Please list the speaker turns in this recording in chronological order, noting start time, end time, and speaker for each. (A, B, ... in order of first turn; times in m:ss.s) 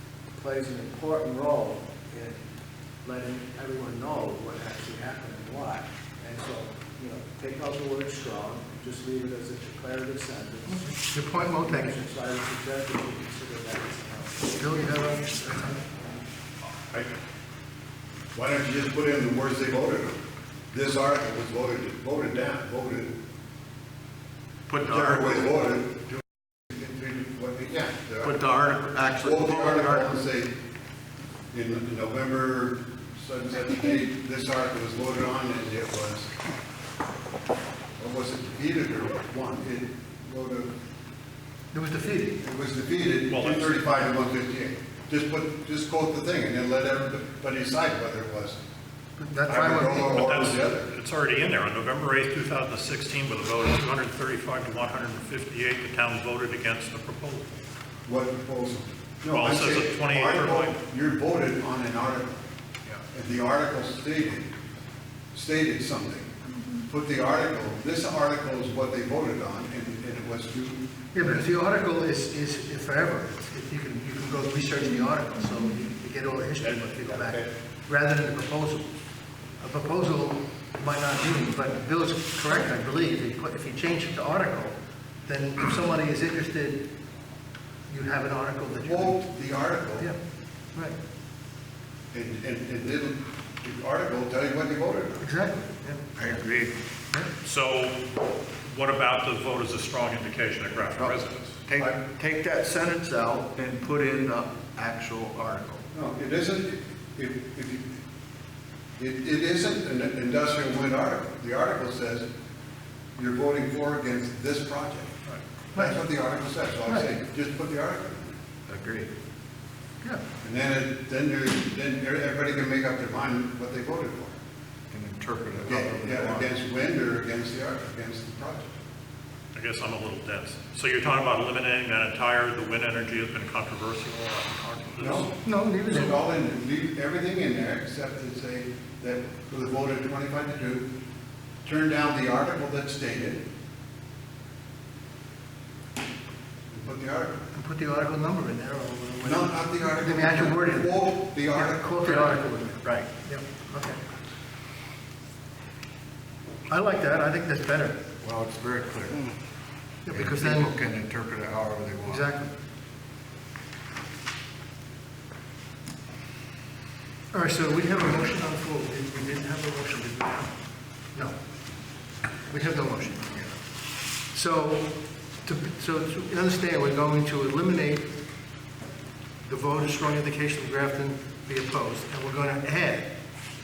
0:00.4-0:02.4 A
0:03.0-0:16.1 A
0:10.7-0:11.9 B
0:14.6-0:15.8 B
0:18.3-0:20.2 C
0:20.7-0:23.1 C
0:24.7-0:25.4 D
0:24.8-0:28.4 C
0:28.2-0:30.1 D
0:29.2-0:30.5 C
0:31.5-0:36.3 C
0:38.0-0:40.7 C
0:41.7-0:42.4 B
0:42.4-0:48.6 C
0:43.3-0:44.0 E
0:49.2-0:50.1 B
0:49.4-0:50.9 C
0:50.0-0:57.6 E
0:58.0-1:02.4 C
0:59.3-1:00.8 E
1:03.1-1:04.5 C
1:05.3-1:06.3 C
1:06.9-1:10.8 C
1:11.1-1:18.8 B
1:16.6-1:17.5 C
1:19.6-1:24.7 B
1:25.2-1:26.8 B
1:27.9-1:29.2 B
1:28.8-1:30.1 C
1:32.1-1:35.2 C
1:35.2-1:36.0 B
1:36.2-1:36.7 D
1:37.4-1:38.1 E
1:38.6-1:41.6 E
1:41.0-1:45.8 D
1:45.9-1:48.0 C
1:49.0-1:52.3 C
1:53.2-1:55.2 C
1:55.2-1:56.0 B
1:55.7-1:58.3 C
1:56.8-1:57.1 B
1:58.7-1:59.1 D
2:00.4-2:04.3 C
2:04.9-2:06.5 D
2:05.6-2:08.7 C
2:09.5-2:15.4 E
2:15.0-2:15.3 C
2:15.4-2:16.3 B
2:15.8-2:20.9 C
2:21.6-2:23.4 C
2:26.7-2:27.5 C
2:27.6-2:30.9 B
2:29.2-2:32.2 C
2:31.5-2:34.0 B
2:32.8-2:33.1 D
2:36.7-2:38.0 B
2:38.2-2:39.3 D
2:40.1-2:40.7 B
2:40.1-2:42.3 D
2:42.1-2:42.5 B
2:47.3-2:50.6 B
2:52.5-2:53.6 B
2:54.3-2:58.1 B
2:59.4-3:03.1 B